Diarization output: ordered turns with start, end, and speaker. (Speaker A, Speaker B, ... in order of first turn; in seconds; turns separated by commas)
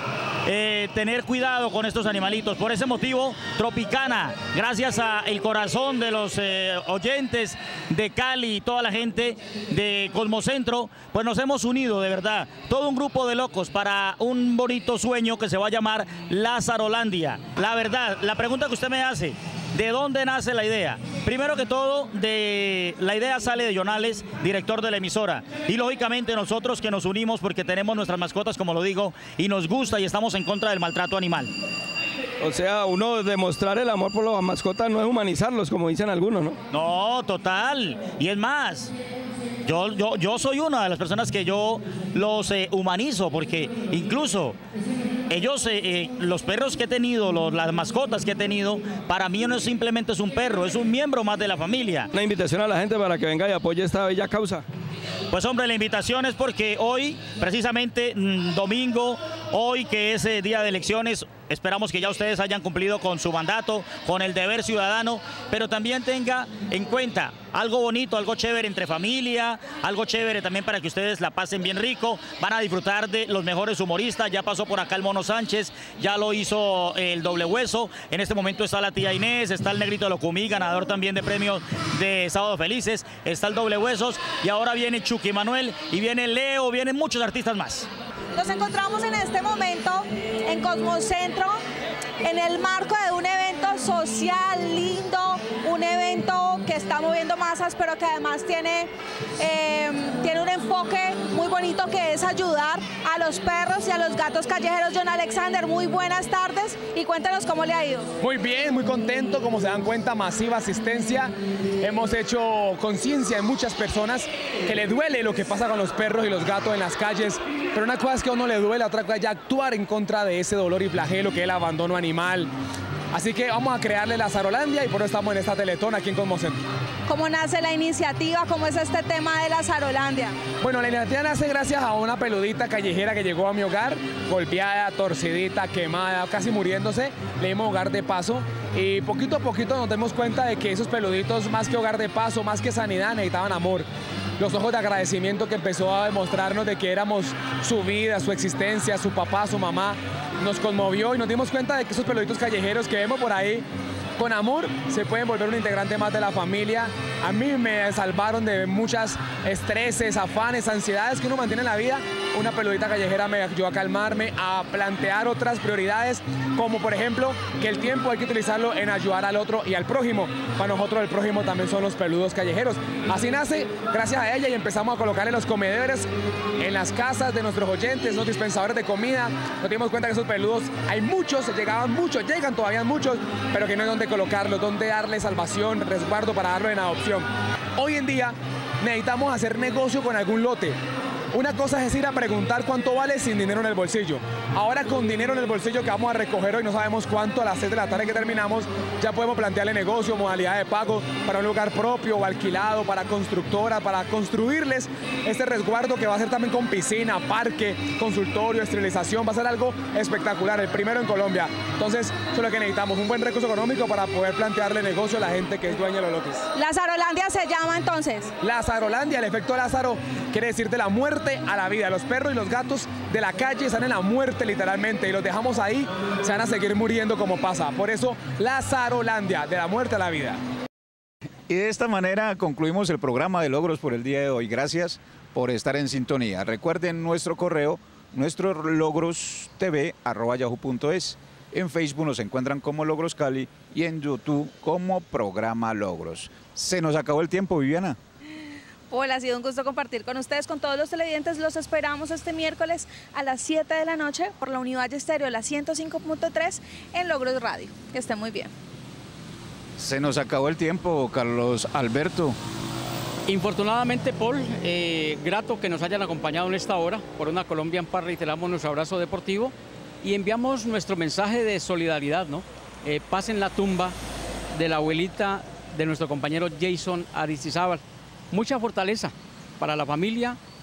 Speaker A: 0.5-31.5, Speaker B: 32.4-36.6, Speaker A: 36.7-38.9, Speaker A: 39.6-44.6, Speaker A: 45.3-52.1, Speaker B: 52.1-54.7, Speaker A: 55.3-87.9, Speaker C: 88.3-91.6, Speaker C: 92.2-108.1, Speaker D: 108.2-122.5, Speaker D: 123.1-126.6, Speaker C: 127.1-130.4, Speaker D: 130.6-143.9, Speaker D: 144.4-153.7, Speaker D: 154.2-190.8, Speaker D: 191.3-216.5, Speaker C: 216.6-218.3, Speaker D: 218.4-230.4, Speaker E: 231.5-248.0, Speaker C: 248.9-258.5, Speaker E: 259.8-262.4, Speaker F: 263.3-274.0, Speaker F: 274.5-280.4